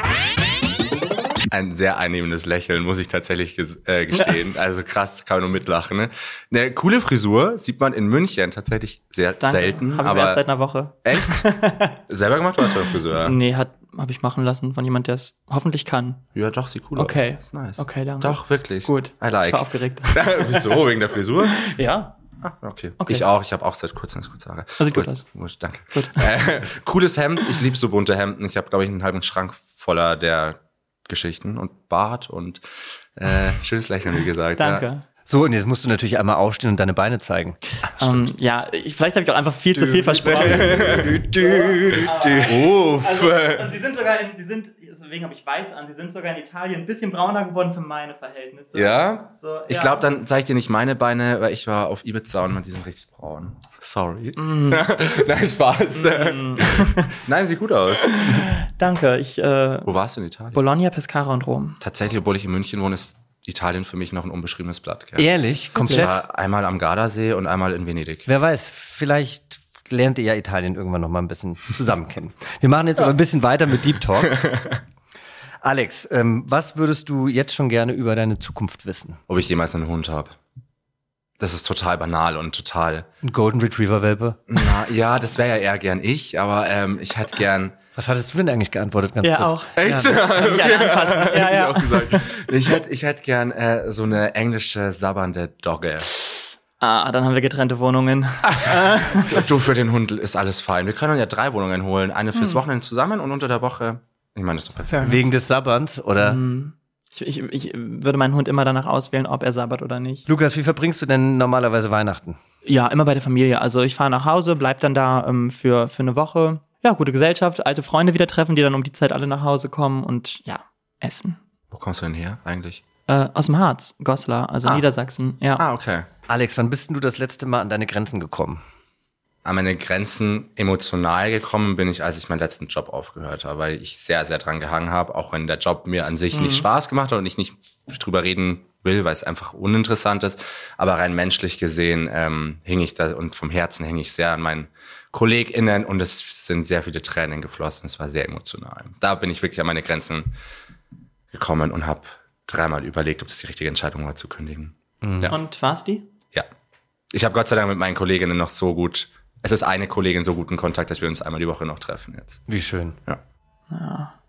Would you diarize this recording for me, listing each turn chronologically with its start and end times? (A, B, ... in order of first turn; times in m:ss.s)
0:01.5-0:10.4 A
0:09.4-0:12.0 B
0:11.0-0:11.5 A
0:12.1-0:13.4 A
0:12.6-0:16.2 B
0:16.4-0:21.6 A
0:17.0-0:20.8 B
0:21.4-0:22.2 B
0:22.4-0:32.6 A
0:23.0-0:23.2 B
0:24.8-0:25.2 B
0:25.9-0:26.2 B
0:33.2-0:34.9 A
0:34.6-0:35.0 B
0:35.2-0:37.6 C
0:37.8-0:50.0 B
0:39.7-0:42.8 C
0:40.2-0:41.2 A
0:41.9-0:43.7 A
0:48.8-0:58.5 A
0:54.4-0:54.8 B
0:55.9-0:57.1 B
0:58.0-0:59.9 B
0:59.9-1:00.6 A
1:00.5-1:01.8 B
1:01.8-1:05.3 A
1:05.2-1:06.2 C
1:05.8-1:06.1 B
1:05.8-1:08.3 A
1:08.3-1:14.4 C
1:14.3-1:14.8 A
1:15.6-1:19.2 C
1:19.3-1:20.4 A
1:21.4-1:23.1 A
1:23.2-1:24.4 C
1:24.5-1:27.8 A
1:28.0-1:30.2 C
1:29.2-1:32.3 B
1:29.8-1:36.1 A
1:36.8-1:39.5 B
1:38.5-1:45.2 A
1:44.9-1:45.2 B
1:45.0-1:46.4 C
1:46.2-1:50.2 B
1:50.3-1:52.4 C
1:52.7-2:01.4 B
2:01.7-2:02.8 A
2:03.1-2:05.6 B
2:05.6-2:06.1 A
2:06.3-2:08.6 C
2:09.4-2:30.3 A
2:16.3-2:16.7 B
2:31.3-2:35.4 A
2:35.0-2:35.3 C
2:35.3-2:36.0 B
2:37.1-2:42.4 A
2:42.5-2:43.0 C
2:43.7-2:44.1 B